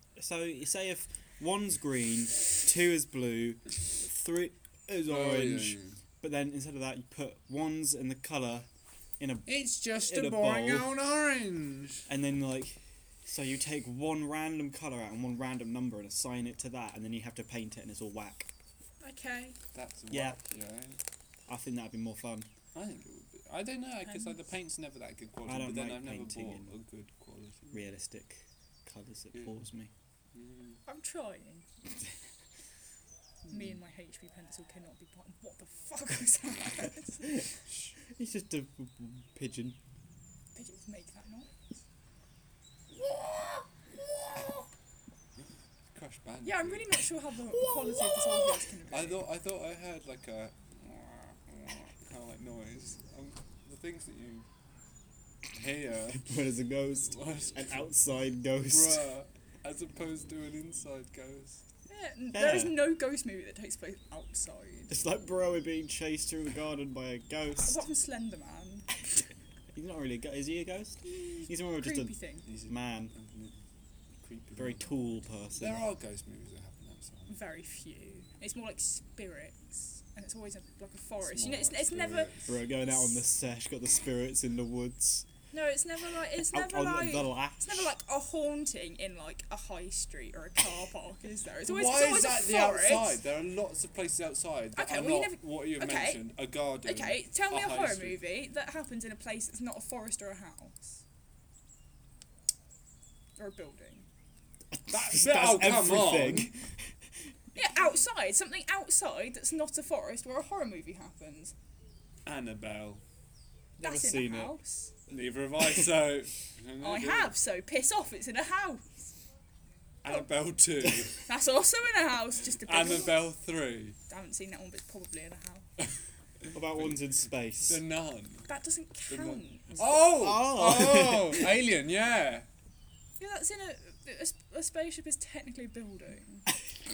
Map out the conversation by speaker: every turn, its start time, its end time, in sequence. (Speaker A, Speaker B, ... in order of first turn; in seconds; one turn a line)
Speaker A: 0.2-8.7
Speaker B: 5.0-6.0
Speaker A: 9.2-9.5
Speaker B: 9.5-12.1
Speaker A: 10.0-10.9
Speaker A: 12.1-18.5
Speaker C: 19.0-19.6
Speaker B: 19.7-21.0
Speaker A: 20.1-20.4
Speaker A: 21.5-22.5
Speaker B: 22.8-27.8
Speaker C: 24.0-24.4
Speaker A: 25.4-26.7
Speaker A: 27.7-29.9
Speaker B: 30.3-30.8
Speaker C: 30.9-31.7
Speaker C: 33.5-37.5
Speaker B: 37.7-38.0
Speaker A: 38.1-39.8
Speaker C: 40.5-41.5
Speaker B: 45.9-47.0
Speaker C: 46.4-49.2
Speaker A: 47.6-48.4
Speaker B: 48.9-54.5
Speaker B: 55.5-56.3
Speaker A: 56.2-59.0
Speaker B: 57.1-57.8
Speaker B: 58.7-61.6
Speaker C: 61.9-65.0
Speaker A: 62.3-62.9
Speaker A: 64.9-67.8
Speaker C: 67.6-68.9
Speaker A: 69.7-72.1
Speaker C: 71.0-72.5
Speaker B: 72.5-73.6
Speaker A: 72.7-73.1
Speaker B: 74.2-75.0
Speaker A: 74.6-75.8
Speaker B: 75.6-77.3
Speaker C: 77.3-82.3
Speaker B: 81.2-82.6
Speaker A: 82.5-85.3
Speaker C: 82.9-83.2
Speaker C: 85.5-93.1
Speaker A: 86.4-87.9
Speaker B: 91.6-98.2
Speaker C: 94.8-101.0
Speaker C: 103.4-104.1
Speaker A: 104.8-107.0
Speaker B: 104.9-106.5
Speaker C: 107.5-111.5
Speaker B: 112.3-113.0
Speaker A: 113.8-114.5
Speaker C: 113.8-114.9
Speaker B: 115.1-117.3
Speaker C: 116.8-119.1
Speaker B: 120.0-121.2
Speaker C: 121.3-123.3
Speaker B: 122.6-124.0
Speaker C: 124.1-125.7
Speaker B: 126.5-127.0
Speaker A: 126.5-127.8
Speaker B: 127.6-128.5
Speaker C: 128.5-129.8
Speaker B: 129.1-132.5
Speaker A: 130.0-131.6
Speaker C: 133.2-136.5